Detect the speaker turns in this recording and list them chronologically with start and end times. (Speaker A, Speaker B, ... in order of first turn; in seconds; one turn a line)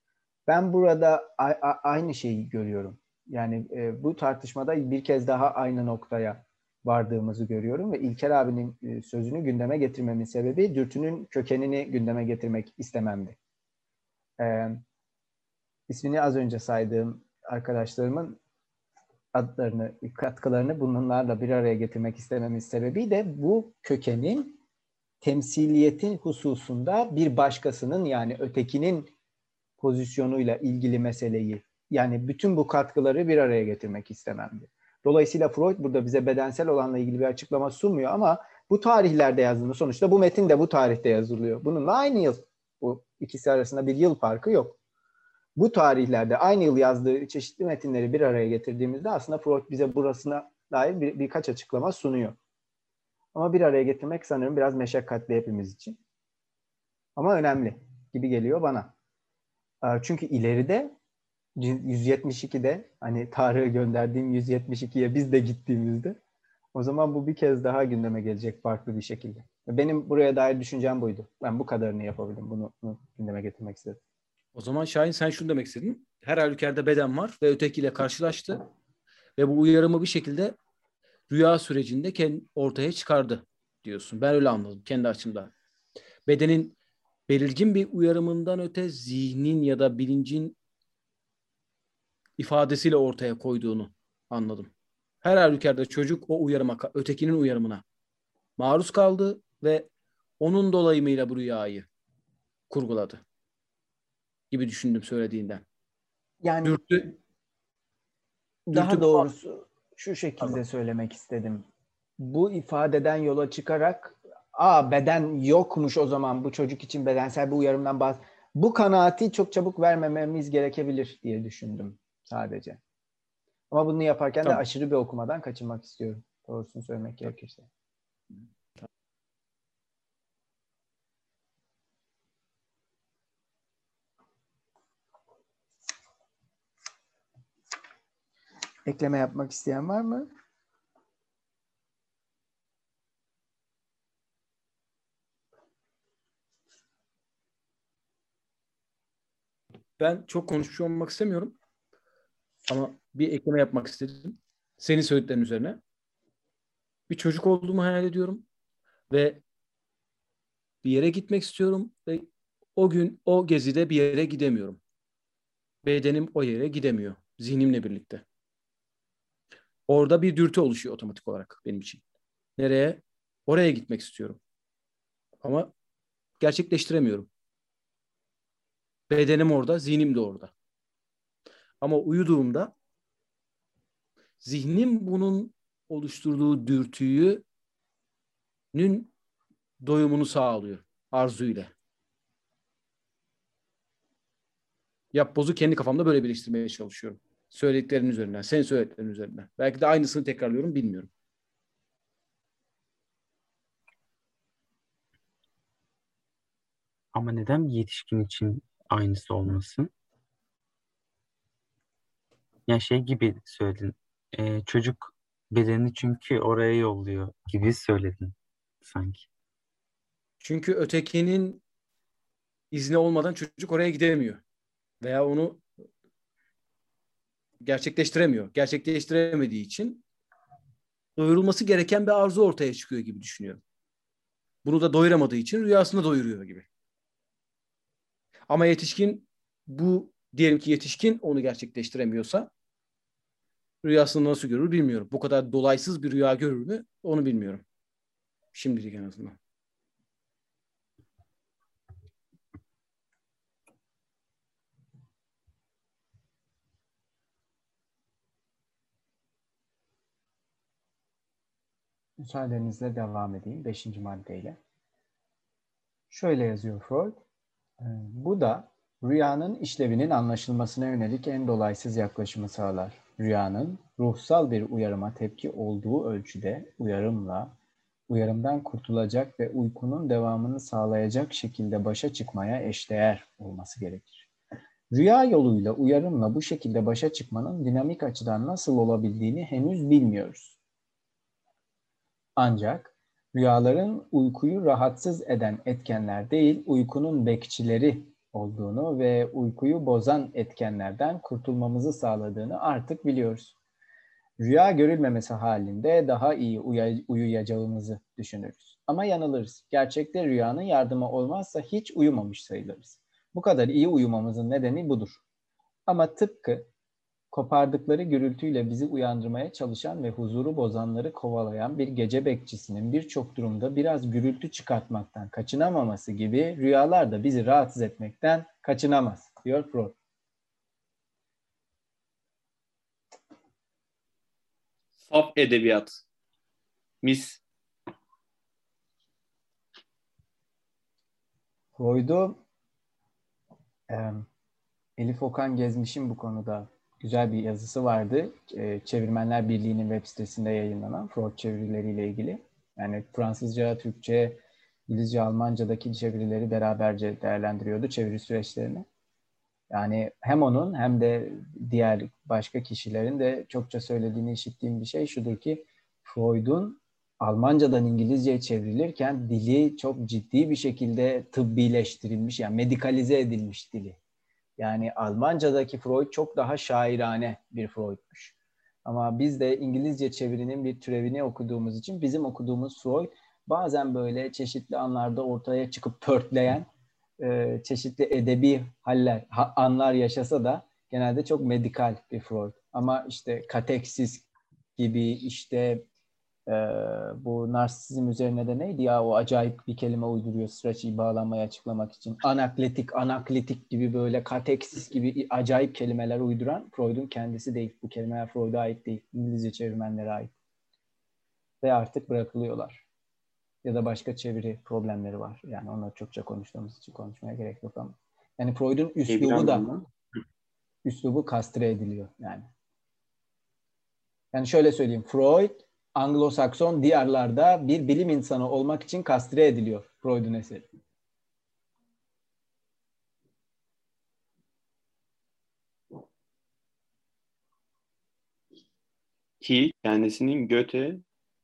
Speaker A: 0.5-13.4
Speaker A: 14.4-14.8
Speaker A: 15.9-18.4
Speaker A: 19.3-24.6
Speaker A: 25.2-29.1
Speaker A: 29.8-44.8
Speaker A: 45.5-52.4
Speaker A: 53.3-56.0
Speaker A: 57.1-58.9
Speaker A: 59.8-60.9
Speaker A: 61.6-66.2
Speaker A: 66.7-74.0
Speaker B: 74.5-78.6
Speaker B: 79.4-80.5
Speaker B: 81.3-85.5
Speaker B: 86.2-86.7
Speaker B: 87.3-90.5
Speaker B: 92.4-94.7
Speaker B: 95.2-97.8
Speaker B: 98.6-99.9
Speaker B: 100.4-101.9
Speaker B: 102.7-103.2
Speaker B: 104.5-105.6
Speaker A: 106.4-106.8
Speaker B: 106.6-107.1
Speaker A: 108.7-111.7
Speaker B: 108.7-109.3
Speaker A: 112.2-122.8
Speaker A: 123.7-127.7
Speaker A: 138.8-140.3
Speaker B: 150.0-151.6
Speaker B: 152.7-155.8
Speaker B: 157.1-158.4
Speaker B: 159.1-159.4
Speaker B: 160.8-164.8
Speaker B: 165.8-168.2
Speaker B: 169.9-172.0
Speaker B: 172.6-174.4
Speaker B: 175.4-175.7
Speaker B: 176.4-177.3
Speaker B: 179.1-180.5
Speaker B: 181.8-182.7
Speaker B: 184.4-187.4
Speaker B: 188.7-189.1
Speaker B: 189.8-191.7
Speaker B: 195.1-201.1
Speaker C: 207.1-209.9
Speaker C: 212.7-219.3
Speaker B: 220.4-221.6
Speaker B: 222.7-224.4
Speaker B: 225.0-225.6
Speaker B: 227.6-230.0
Speaker B: 231.2-233.6
Speaker B: 234.6-236.7
Speaker B: 238.5-242.5
Speaker B: 243.8-247.6
Speaker B: 248.5-249.3
Speaker A: 262.2-264.6
Speaker A: 266.1-267.2
Speaker A: 267.8-277.5
Speaker A: 278.1-284.3
Speaker A: 284.9-290.6
Speaker A: 292.4-303.5
Speaker A: 304.4-315.2
Speaker A: 315.9-316.7
Speaker A: 317.3-329.9
Speaker D: 335.0-336.0
Speaker D: 337.0-337.4
Speaker A: 341.8-342.4
Speaker A: 343.9-344.2
Speaker A: 345.0-358.9
Speaker A: 359.7-374.0
Speaker A: 374.6-378.3
Speaker A: 378.8-395.8
Speaker A: 396.5-410.3
Speaker A: 411.6-412.8
Speaker A: 413.6-419.7
Speaker D: 419.1-419.8
Speaker A: 420.8-422.5
Speaker A: 424.3-430.7
Speaker D: 439.4-441.0